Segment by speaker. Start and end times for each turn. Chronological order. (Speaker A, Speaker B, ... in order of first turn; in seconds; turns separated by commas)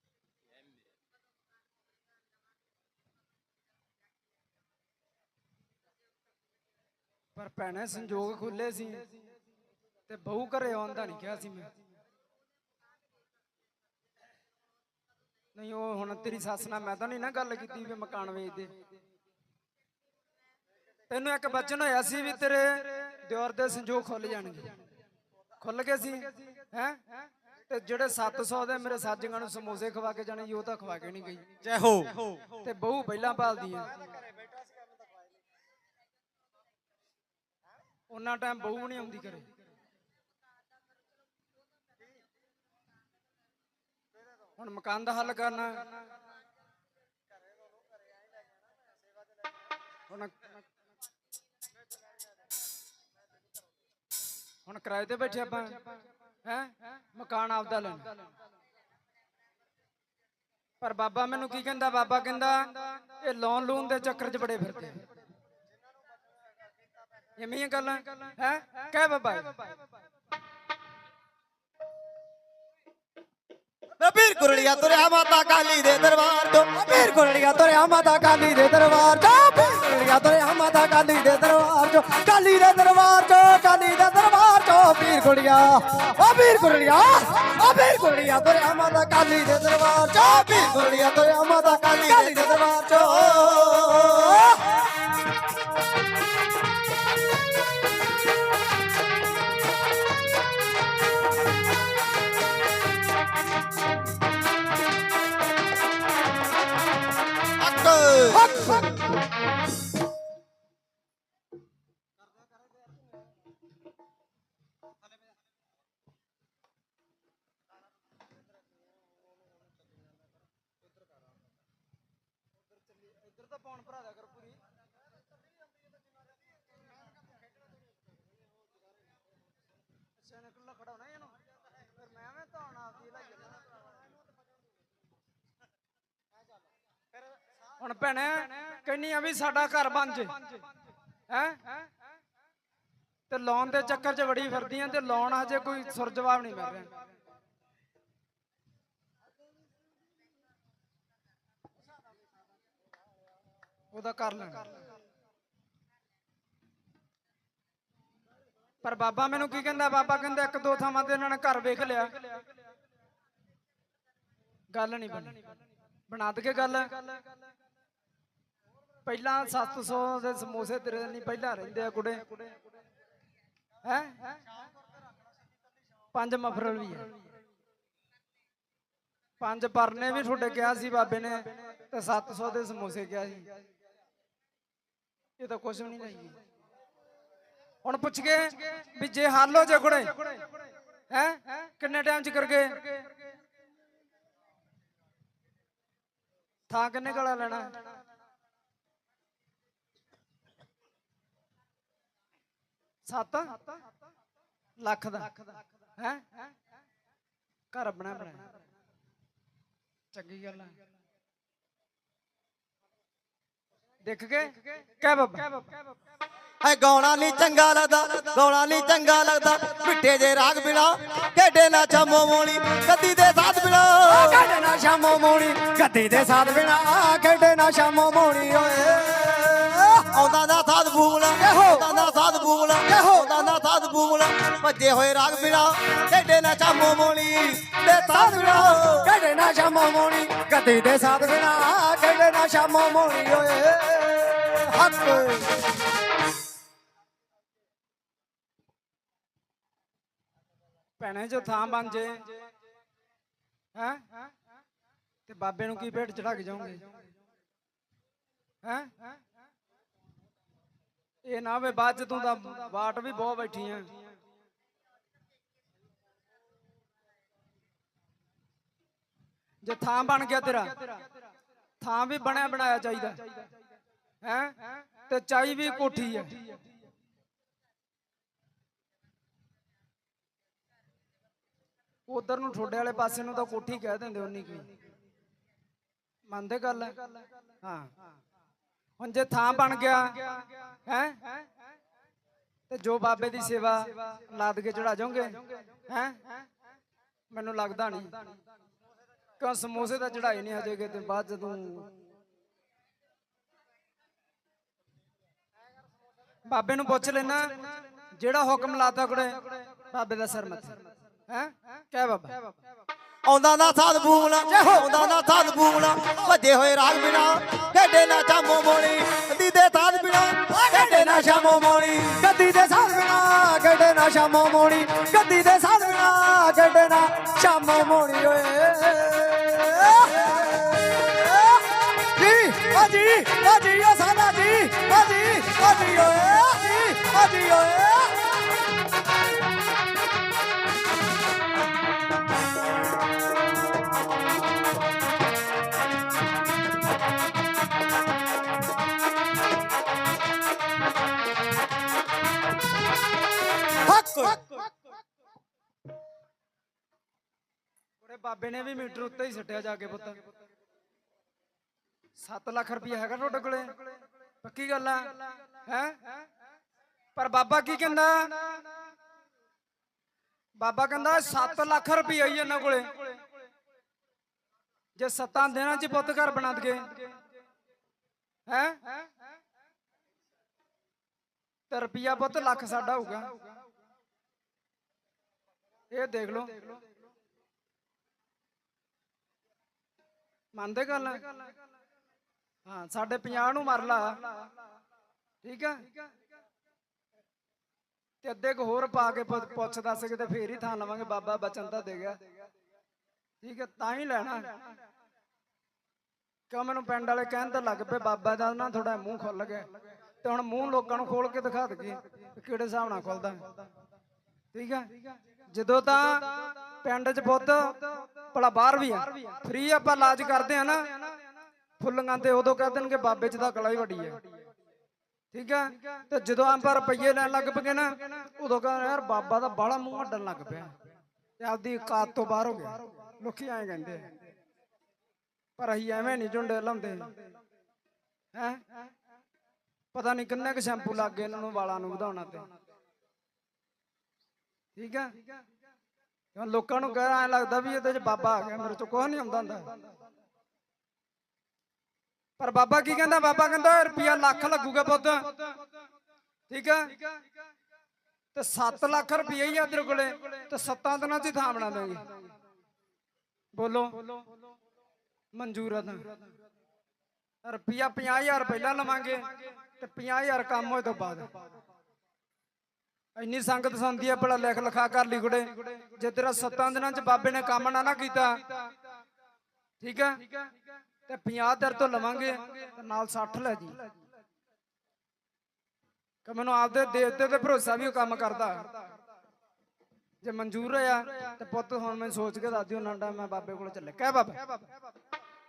Speaker A: 7.3-9.0, Speaker A: 10.1-11.7, Speaker A: 15.5-18.8, Speaker A: 21.1-24.7, Speaker A: 25.6-27.2, Speaker A: 27.7-31.6, Speaker B: 31.6-32.4, Speaker A: 32.6-33.9, Speaker A: 38.1-39.5, Speaker A: 44.6-45.8, Speaker A: 50.1-50.5, Speaker A: 54.6-55.8, Speaker A: 56.4-58.2, Speaker A: 60.8-65.0, Speaker A: 67.4-69.6, Speaker B: 74.0-76.8, Speaker C: 76.8-93.6, Speaker B: 90.1-91.1, Speaker B: 91.7-94.5, Speaker C: 94.1-94.6, Speaker B: 107.6-108.9, Speaker C: 108.3-109.0, Speaker A: 123.2-124.5, Speaker A: 130.4-131.3, Speaker A: 132.4-133.4, Speaker A: 137.8-140.6, Speaker A: 141.3-141.7, Speaker A: 143.3-146.9, Speaker A: 153.9-154.8, Speaker A: 158.8-162.4, Speaker A: 164.7-165.4, Speaker A: 166.1-167.1, Speaker A: 169.0-172.5, Speaker A: 173.8-174.4, Speaker A: 176.1-177.1, Speaker A: 179.4-183.5, Speaker A: 185.4-186.4, Speaker A: 187.8-190.4, Speaker A: 191.1-193.1, Speaker A: 196.7-197.7, Speaker A: 203.1-203.6, Speaker A: 204.8-205.3, Speaker A: 206.0-206.4, Speaker A: 207.7-208.4, Speaker A: 210.1-210.7, Speaker A: 214.0-215.7, Speaker B: 216.6-224.5, Speaker C: 224.0-230.1, Speaker B: 230.1-239.1, Speaker C: 231.3-231.9, Speaker C: 232.8-233.2, Speaker C: 238.2-245.6, Speaker A: 251.0-252.3, Speaker A: 253.7-254.2, Speaker A: 255.2-256.9, Speaker A: 258.6-259.1, Speaker A: 261.2-263.9, Speaker A: 269.6-271.0, Speaker A: 271.8-273.5, Speaker A: 274.2-276.6, Speaker A: 282.1-284.7, Speaker A: 286.3-287.9, Speaker A: 289.0-291.4, Speaker A: 292.7-296.5, Speaker A: 297.3-298.2, Speaker A: 299.4-301.9, Speaker A: 306.5-310.8, Speaker A: 311.3-312.4, Speaker B: 313.2-322.2, Speaker C: 314.5-315.1, Speaker C: 320.6-338.4, Speaker C: 353.9-354.4, Speaker A: 358.0-360.2, Speaker A: 362.2-363.7, Speaker A: 364.4-366.1, Speaker A: 367.1-368.6, Speaker A: 370.6-373.1, Speaker A: 375.0-377.1, Speaker A: 378.5-378.9, Speaker A: 381.7-383.3, Speaker A: 385.9-386.8, Speaker A: 390.5-391.3, Speaker A: 392.6-394.2, Speaker A: 395.4-395.9, Speaker A: 398.2-402.2, Speaker A: 403.4-404.6, Speaker A: 406.5-409.7, Speaker A: 410.2-413.4, Speaker A: 414.5-414.9, Speaker A: 415.5-420.9, Speaker A: 421.8-424.2, Speaker A: 425.3-430.7, Speaker A: 431.4-434.1, Speaker A: 435.6-437.1, Speaker A: 438.3-438.9, Speaker A: 439.9-442.5, Speaker A: 444.8-445.2, Speaker A: 446.3-449.8, Speaker A: 452.4-455.4, Speaker A: 456.5-457.0, Speaker A: 458.3-462.1, Speaker A: 463.5-464.2, Speaker A: 465.3-466.1, Speaker A: 467.4-471.3, Speaker A: 473.2-478.6, Speaker A: 479.8-480.3, Speaker A: 481.1-483.8, Speaker A: 486.2-488.7, Speaker A: 490.2-494.4